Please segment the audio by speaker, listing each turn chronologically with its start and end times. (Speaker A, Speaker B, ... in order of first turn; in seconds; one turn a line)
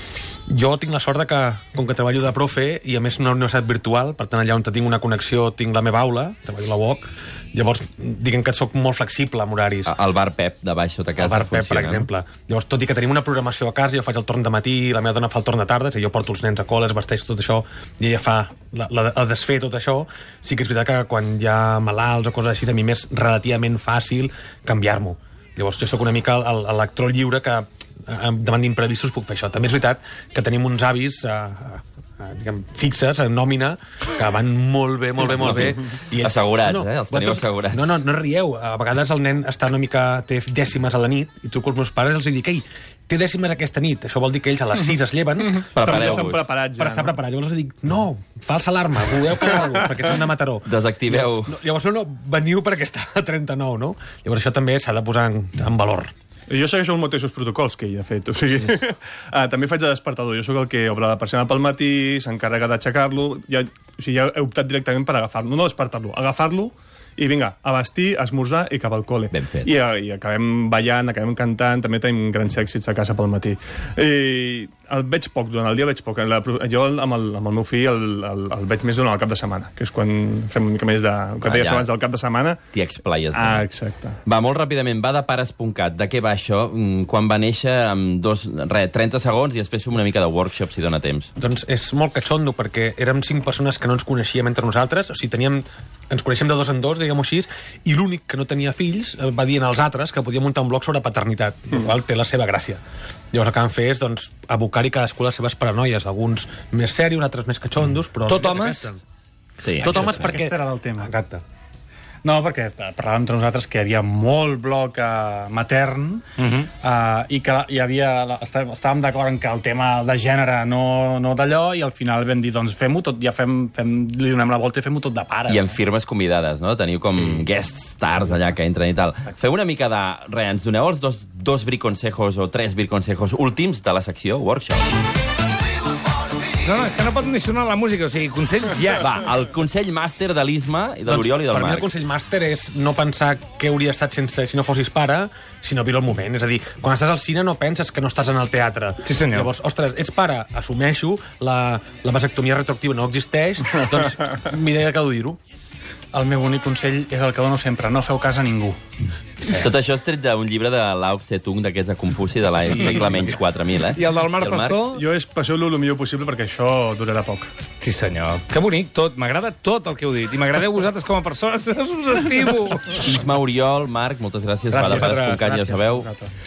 Speaker A: 0.5-9.9
Speaker B: 9.9-12.1
Speaker A: 11.2-46.0
Speaker B: 35.2-38.0
Speaker C: 45.6-47.2
Speaker B: 45.7-46.5
Speaker A: 46.8-56.1
Speaker B: 50.6-51.5
Speaker C: 56.5-82.6
Speaker B: 69.3-69.7
Speaker B: 81.4-81.9
Speaker B: 82.7-83.7
Speaker C: 83.3-84.2
Speaker B: 84.3-91.3
Speaker A: 91.4-102.8
Speaker A: 103.3-109.0
Speaker D: 108.3-108.9
Speaker B: 109.6-110.4
Speaker A: 109.8-111.4
Speaker E: 109.9-111.1
Speaker E: 112.2-116.2
Speaker D: 116.4-116.7
Speaker E: 116.8-125.7
Speaker B: 125.5-134.9
Speaker D: 136.6-139.2
Speaker B: 139.0-141.9
Speaker A: 141.1-155.4
Speaker D: 149.1-149.5
Speaker E: 156.1-158.8
Speaker B: 159.4-164.8
Speaker D: 162.7-163.2
Speaker A: 162.7-163.4
Speaker D: 163.9-165.1
Speaker C: 164.9-167.5
Speaker D: 167.8-173.1
Speaker B: 173.0-176.1
Speaker E: 174.7-176.3